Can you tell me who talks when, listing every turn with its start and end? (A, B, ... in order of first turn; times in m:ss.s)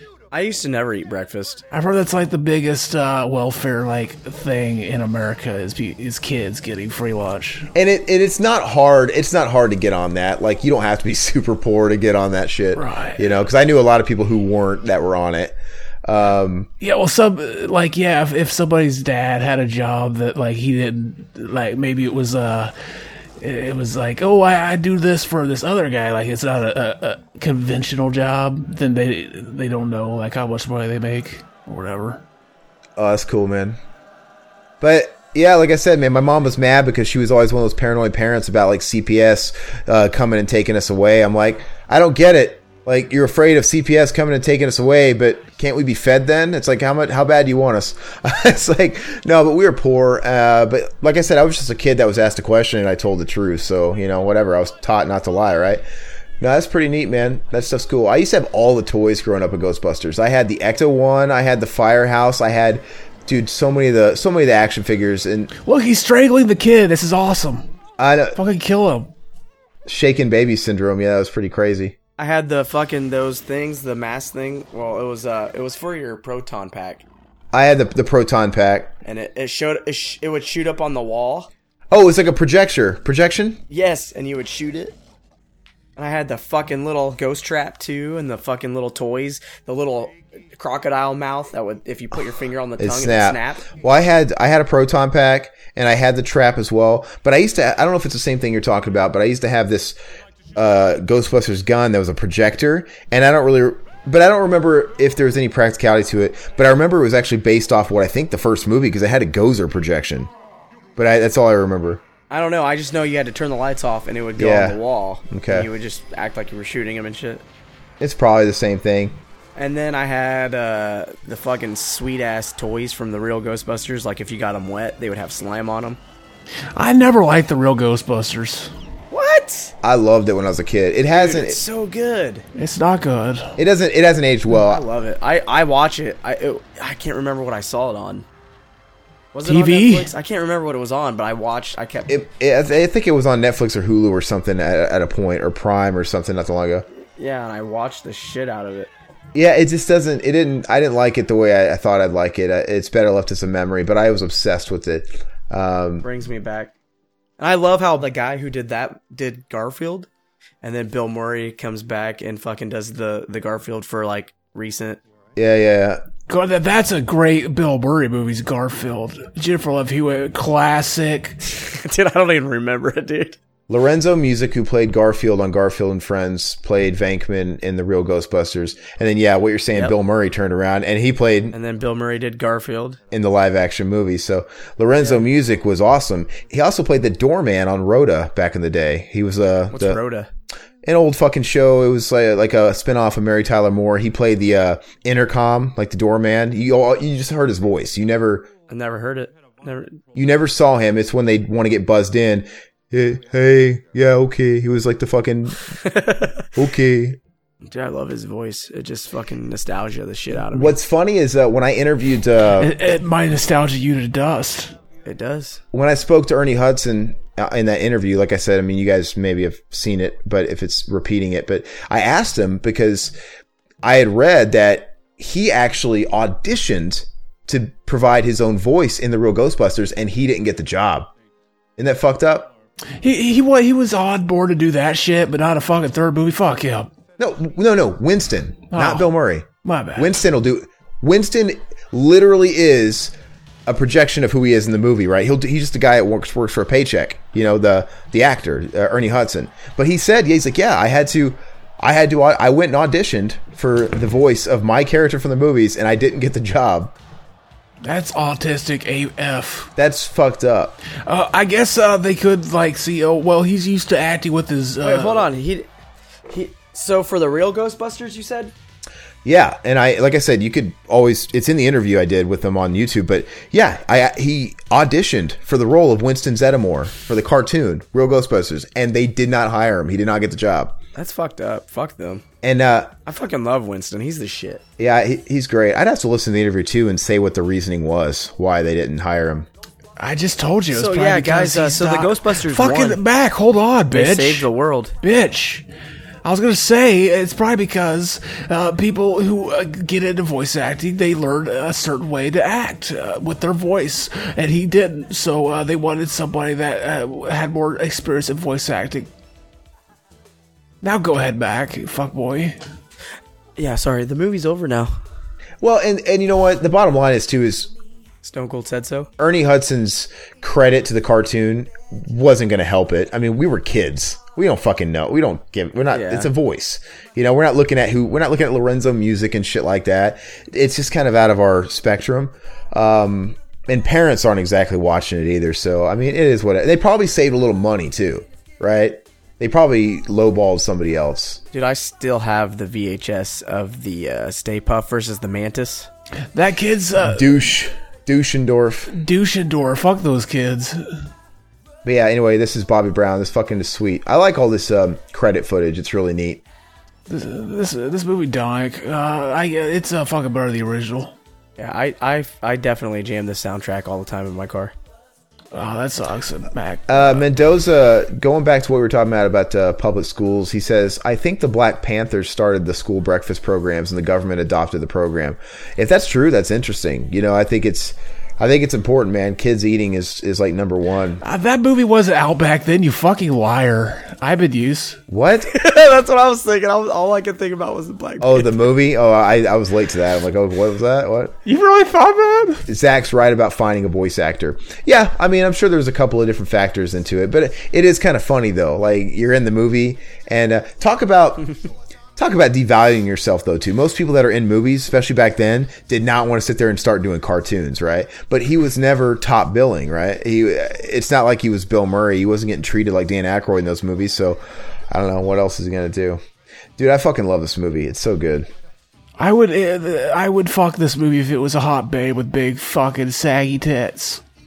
0:00.3-0:01.6 A
0:01.7-0:07.7 B
0:07.7-0:16.7 C
0:12.7-0:13.2 B
0:16.8-0:22.7 B
0:23.4-0:32.2 B
0:33.0-0:33.8 C
0:34.8-0:55.8 C
0:56.4-1:05.5 C
1:05.6-1:07.7 B
1:08.0-1:08.4 C
1:08.3-1:09.1 B
1:09.8-1:11.9 C
1:12.2-1:17.0 A
1:17.5-1:18.9 C
1:19.0-1:21.5 A
1:21.9-1:23.6 C
1:23.7-1:25.0 A
1:26.0-1:33.7 A
1:32.8-1:40.0 C
1:40.6-1:50.3 C
1:51.0-1:52.0 C
1:52.3-1:57.4 A
1:54.4-1:55.7 C
1:58.0-1:59.2 C
1:59.5-2:06.0 A
2:06.7-2:08.7 B
2:09.1-2:09.7 A
2:09.8-2:11.6 C
2:11.1-2:12.4 A
2:12.5-2:13.6 B
2:13.6-2:14.8 C
2:14.5-2:18.3 A
2:19.3-2:22.2 A
2:19.4-2:20.1 B
2:22.1-2:26.8 C
2:27.2-2:28.9 A
2:29.3-2:36.0 C
2:36.0-2:36.7 A
2:37.4-2:40.1 A
2:40.6-2:45.0 A
2:45.4-2:46.0 C
2:46.3-2:51.4 B
2:51.5-2:53.4 A
2:53.7-3:01.5 C
3:01.5-3:03.0 A
3:03.1-3:10.0 C
3:05.0-3:05.2 A
3:09.7-3:10.3 A
3:10.8-3:18.5 C
3:18.7-3:20.0 A
3:20.1-3:25.8 C
3:25.8-3:26.4 A
3:26.5-3:27.2 C
3:27.6-3:30.8 A
3:30.5-3:32.7 C
3:32.6-3:34.7 B
3:35.0-3:35.6 A
3:35.7-3:43.1 C
3:43.8-3:51.1 C
3:51.8-3:52.5 C
3:53.0-3:56.9 B
3:57.2-4:03.1 C
3:58.7-3:59.1 B
3:59.6-4:00.2 B
4:03.6-4:16.9 C
4:17.8-4:19.7 B
4:19.8-4:20.8 C
4:20.9-4:25.2 B
4:24.8-4:25.7 A
4:26.3-4:28.5 A
4:29.2-4:40.8 C
4:40.9-4:42.2 A
4:42.4-4:42.9 C
4:43.0-4:44.6 A
4:44.8-4:49.5 C
4:50.0-4:54.4 B
4:50.7-4:53.0 A
4:53.9-4:54.9 A
4:55.0-4:55.6 B
4:56.2-5:09.1 B
5:10.8-5:12.6 B
5:13.6-5:14.9 A
5:15.6-5:17.7 C
5:18.2-5:19.1 A
5:19.2-5:41.4 C
5:25.9-5:26.3 A
5:41.5-5:45.9 A
5:46.3-5:47.2 B
5:47.0-5:48.9 C
5:48.9-5:50.9 B
5:51.8-5:56.4 C
5:57.1-6:01.2 B
6:01.6-6:04.7 A
6:05.5-6:07.2 B
6:06.9-6:21.2 C
6:21.2-6:25.0 B
6:25.1-6:25.5 C
6:25.5-6:28.5 A
6:28.2-6:31.4 C
6:31.4-6:32.6 B
6:32.7-6:41.5 C
6:42.2-6:56.2 C
6:56.8-6:58.5 C
6:59.2-7:04.2 B